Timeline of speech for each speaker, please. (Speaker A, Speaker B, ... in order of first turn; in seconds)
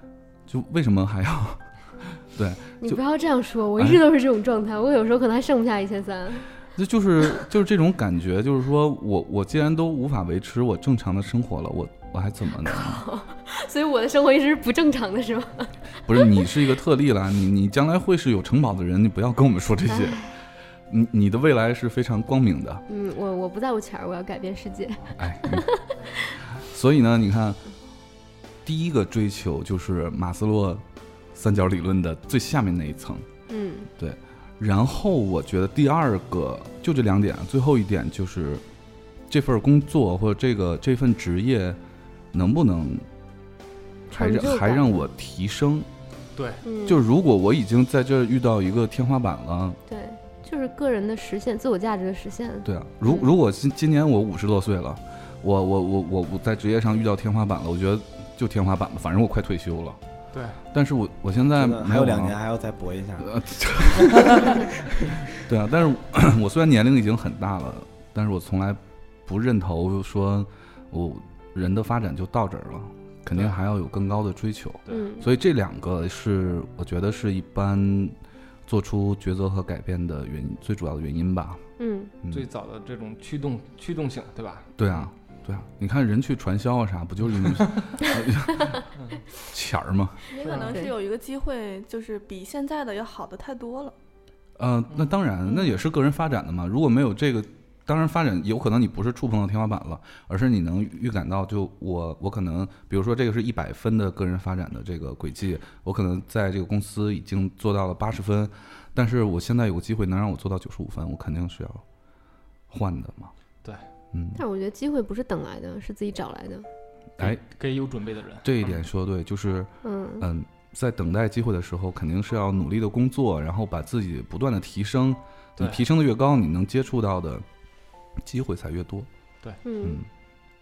Speaker A: 0.5-3.0, 6.7-13.0, 16.1-20.3, 20.9-22.8, 25.2-25.7, 26.5-27.6, 28.6-33.2, 34.0-38.6, 39.3-41.8, 42.3-43.0, 44.1-45.9, 46.8-49.8, 52.6-60.0, 60.7-62.4, 63.2-64.5, 65.4-78.2, 78.7-81.6, 82.2-82.5, 84.8-88.8, 89.4-90.2, 94.6-111.8, 112.7-113.3, 114.1-114.4, 118.4-127.4, 128.2-129.1, 129.8-130.1
Speaker B: 2.8-6.5, 12.6-15.7, 19.9-20.3, 22.9-26.4, 33.5-33.9, 44.1-45.1, 46.6-47.0, 49.9-53.3, 74.9-75.2, 81.8-82.1, 90.6-90.9, 114.3-116.7, 119.8-120.2, 129.6-130.0
Speaker C: 46.4-46.6, 60.3-60.6, 82.3-85.0, 90.4-90.7, 117.2-118.8, 125.6-125.8
Speaker D: 61.5-63.3, 64.1-64.6
Speaker E: 90.3-93.9